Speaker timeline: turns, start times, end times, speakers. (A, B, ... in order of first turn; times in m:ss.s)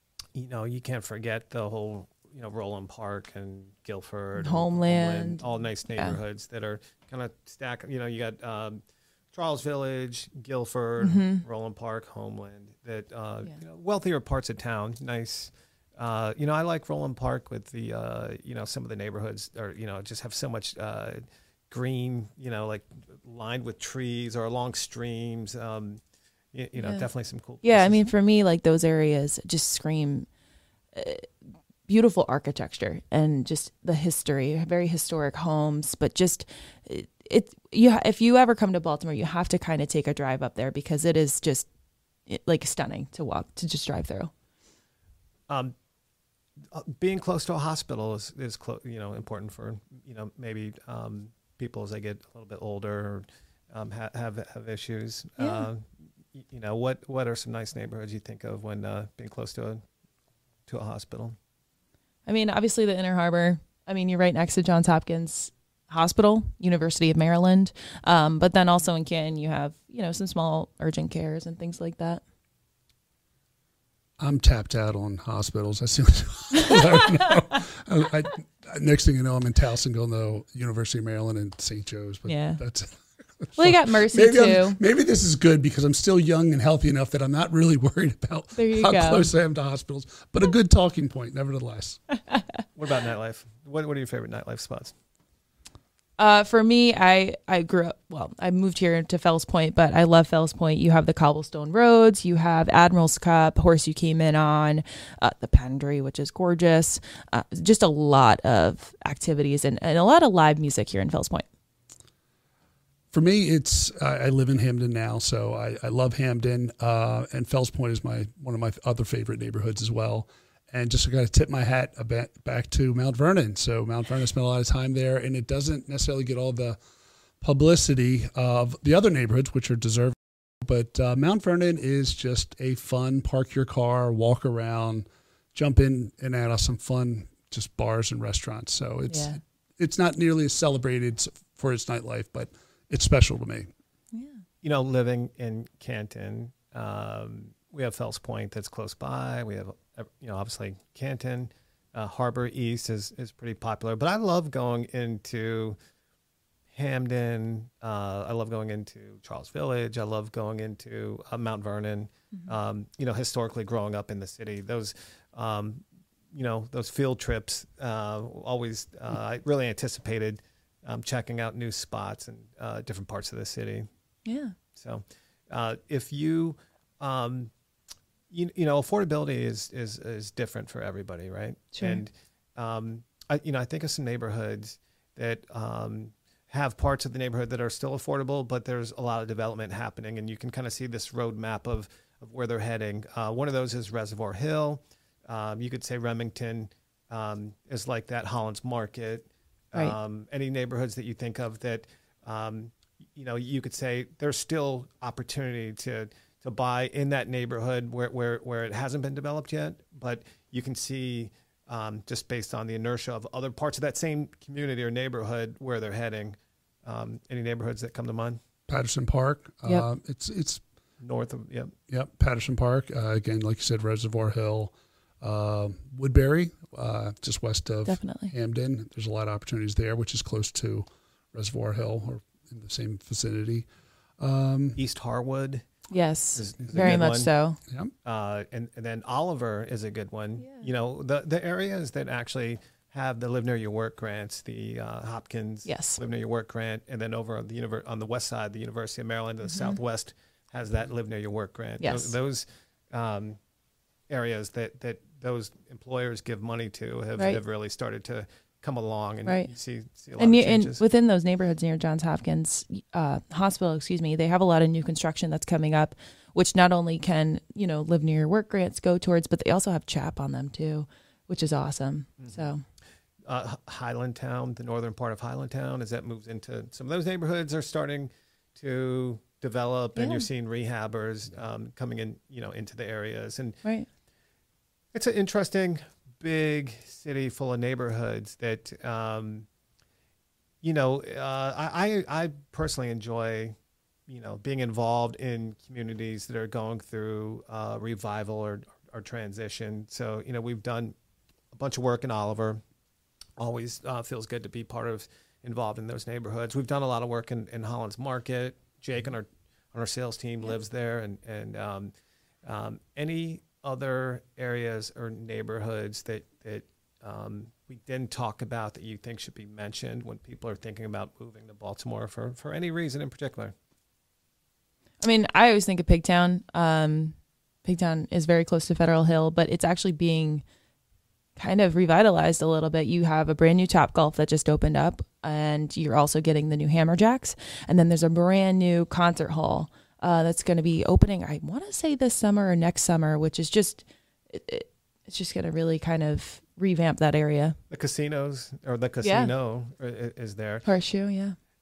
0:00.3-0:26.0 A
0:04.4-0:06.2 B
0:11.0-0:11.4 B
0:26.5-0:28.1 A
0:26.7-0:27.1 B
0:27.6-0:30.3 B
0:30.9-0:31.3 B
0:31.9-0:41.7 B
0:42.3-0:44.3 B
0:46.7-0:59.8 A
0:55.4-0:55.7 B
1:00.7-1:01.4 A
1:02.2-1:12.2 B
1:14.2-1:32.0 C
1:22.2-1:22.6 B
1:23.6-1:24.8 B
1:28.6-1:29.3 B
1:32.8-1:34.9 A
1:36.2-1:51.4 B
1:53.1-2:06.8 C
2:07.4-2:23.7 C
2:19.1-2:19.4 B
2:24.1-2:24.4 B
2:24.6-2:35.8 A
2:36.7-2:53.8 A
2:54.2-2:54.5 B
2:54.7-2:57.5 A
2:58.3-3:38.4 A
3:01.7-3:02.0 B
3:38.7-3:40.6 C
3:41.0-3:41.7 A
3:41.9-3:53.6 C
3:47.8-3:48.3 B
3:54.2-3:54.8 C
3:54.8-3:55.6 A
3:55.9-3:57.6 B
3:56.3-3:57.3 A
3:58.0-4:13.4 A
4:00.4-4:00.6 B
4:05.6-4:06.0 B
4:09.4-4:09.8 B
4:11.8-4:12.1 B
4:14.1-4:20.8 A
4:19.2-4:19.5 B
4:20.2-4:32.6 B
4:32.2-4:32.4 A
4:33.3-4:43.6 A
4:39.9-4:40.2 B
4:44.9-4:49.5 A
4:50.6-4:53.6 A
4:54.1-5:00.9 A
5:01.5-5:02.6 A
5:03.4-5:11.9 A
5:12.4-5:23.5 A
5:25.0-5:30.4 B
5:31.4-5:47.6 B
5:47.7-5:50.7 A
5:49.0-5:49.3 B
5:50.6-5:51.3 B